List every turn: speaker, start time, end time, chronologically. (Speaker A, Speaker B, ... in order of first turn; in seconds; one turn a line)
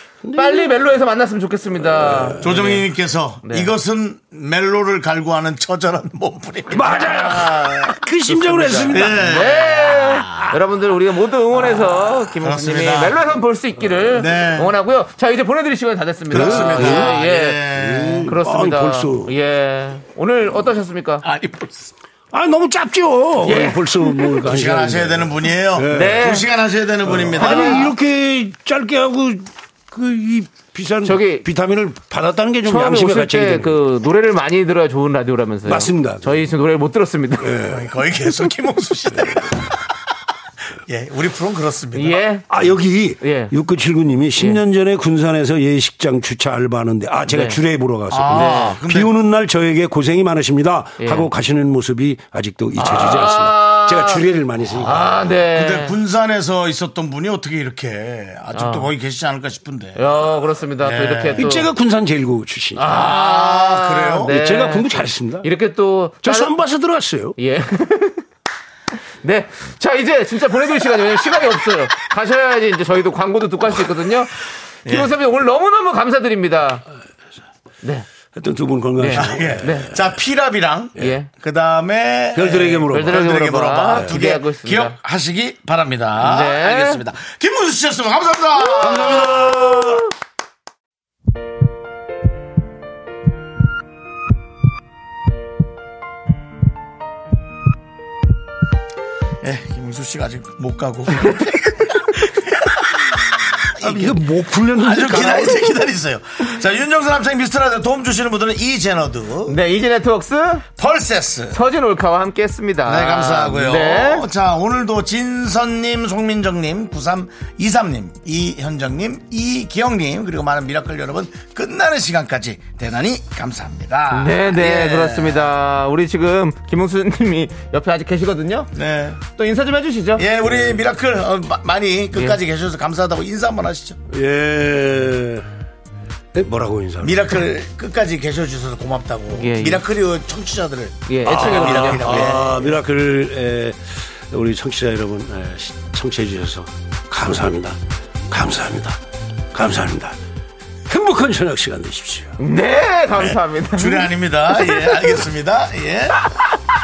Speaker A: 0.2-0.8
Speaker B: 0.3-2.9
Speaker A: 1.9-2.6
Speaker C: 2.4-7.9
Speaker B: 3.4-3.7
Speaker A: 6.7-9.4
Speaker B: 8.2-17.7
Speaker C: 8.9-10.4
Speaker C: 11.7-13.2
Speaker C: 14.0-14.8
Speaker C: 16.3-18.3
Speaker A: 16.3-17.2
Speaker A: 17.7-19.3
Speaker B: 18.2-21.2
Speaker C: 21.2-21.9
Speaker A: 22.3-26.4
Speaker B: 23.4-24.3
Speaker C: 24.4-27.9
Speaker B: 25.9-26.5
Speaker A: 27.1-33.8
Speaker B: 27.3-27.9
Speaker B: 31.0-31.4
Speaker B: 32.6-37.5
Speaker A: 35.6-36.5
Speaker A: 37.4-38.0
Speaker C: 37.7-39.8
Speaker C: 40.9-42.2
Speaker B: 41.9-42.5
Speaker A: 42.5-55.2
Speaker B: 43.2-43.5
Speaker B: 47.3-47.6
Speaker C: 48.1-49.1
Speaker B: 48.3-48.8
Speaker B: 51.0-51.3
Speaker B: 52.7-54.2
Speaker B: 54.8-56.0
Speaker C: 55.5-60.3
Speaker B: 58.5-58.9
Speaker B: 60.0-61.7
Speaker C: 60.8-61.6
Speaker A: 61.4-62.9
Speaker B: 62.8-66.5
Speaker C: 62.8-64.3
Speaker A: 64.2-65.5
Speaker A: 66.2-67.3
Speaker B: 67.4-68.2
Speaker B: 69.2-76.8
Speaker C: 74.8-75.1
Speaker B: 77.8-78.1
Speaker A: 78.3-80.0
Speaker B: 79.0-79.9
Speaker C: 79.2-89.7
Speaker B: 81.0-81.3
Speaker A: 82.3-83.3
Speaker B: 82.9-85.0
Speaker B: 86.2-87.0
Speaker B: 88.8-90.0
Speaker A: 88.8-90.0
Speaker C: 99.4-103.0
Speaker C: 103.8-104.2
Speaker A: 103.8-105.7
Speaker C: 104.7-109.6
Speaker B: 109.5-110.7
Speaker C: 110.8-111.6
Speaker B: 111.5-114.2
Speaker C: 112.8-125.5
Speaker B: 124.1-128.7
Speaker C: 128.7-129.2
Speaker B: 129.2-130.2
Speaker C: 130.2-134.0
Speaker A: 134.1-135.5
Speaker A: 136.3-137.3
Speaker C: 137.0-142.6
Speaker B: 139.3-139.8
Speaker B: 141.1-142.4
Speaker A: 141.3-147.8
Speaker A: 148.3-149.0
Speaker A: 149.5-150.2
Speaker A: 150.9-152.3
Speaker B: 152.4-155.2
Speaker C: 153.2-156.2